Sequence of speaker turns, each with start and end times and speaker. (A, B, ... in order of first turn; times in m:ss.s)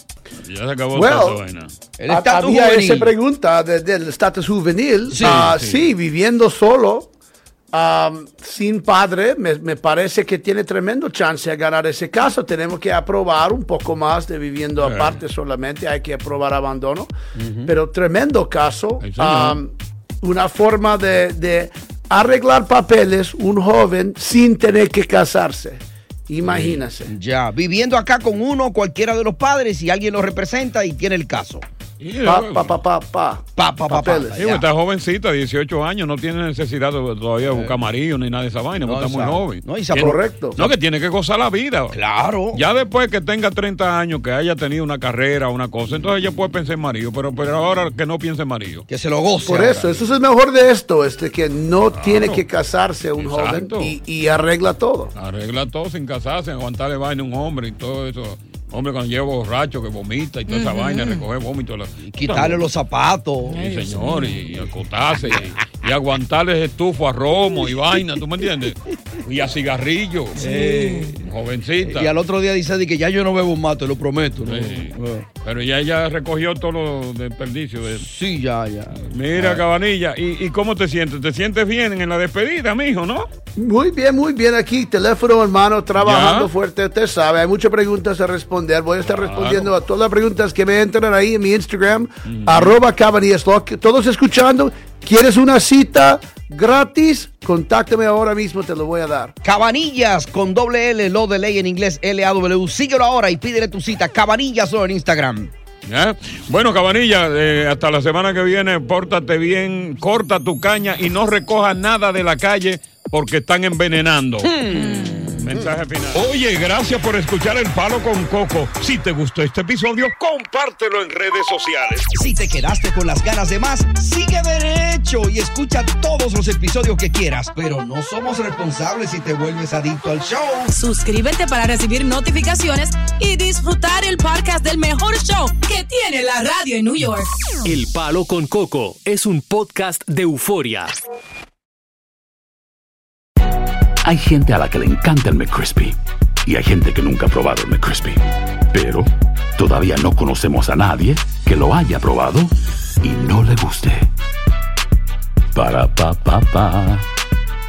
0:00.4-0:01.7 A
0:00.9-0:01.4 B
0:02.0-0:03.1 C
0:02.1-0:07.1 B
0:05.1-0:05.6 C
0:05.2-0:05.9 A
0:07.7-0:17.1 B
0:14.8-0:15.2 A
0:17.3-0:17.7 C
0:17.6-0:27.1 B
0:19.0-0:19.6 A
0:26.4-0:26.8 A
0:27.0-0:31.6 C
0:32.0-0:32.8 A
0:32.2-0:34.5 B
0:33.6-0:34.6 C
0:34.4-0:42.0 A
0:37.5-0:37.8 C
0:38.8-0:40.7 C
0:39.9-0:40.6 B
0:41.9-0:42.6 C
0:42.5-0:48.8 A
0:48.9-0:50.0 C
0:49.4-0:55.1 B
0:51.9-0:52.4 A
0:53.2-0:54.0 A
0:55.1-1:02.6 A
1:00.5-1:01.2 D
1:02.0-1:03.7 C
1:03.5-1:10.4 A
1:03.6-1:04.4 D
1:05.2-1:05.5 C
1:10.4-1:11.2 C
1:11.2-1:12.1 A
1:11.8-1:15.2 C
1:14.4-1:18.0 A
1:17.9-1:19.6 C
1:19.0-1:23.3 A
1:23.6-1:39.4 B
1:26.0-1:26.5 A
1:29.0-1:29.7 A
1:32.2-1:32.8 A
1:39.4-1:45.5 C
1:45.9-1:54.5 A
1:54.4-1:55.4 C
1:55.3-2:02.1 A
2:02.1-2:10.7 C
2:10.7-2:17.3 D
2:17.6-2:20.9 E
2:24.0-2:34.1 F
2:35.5-2:37.0 F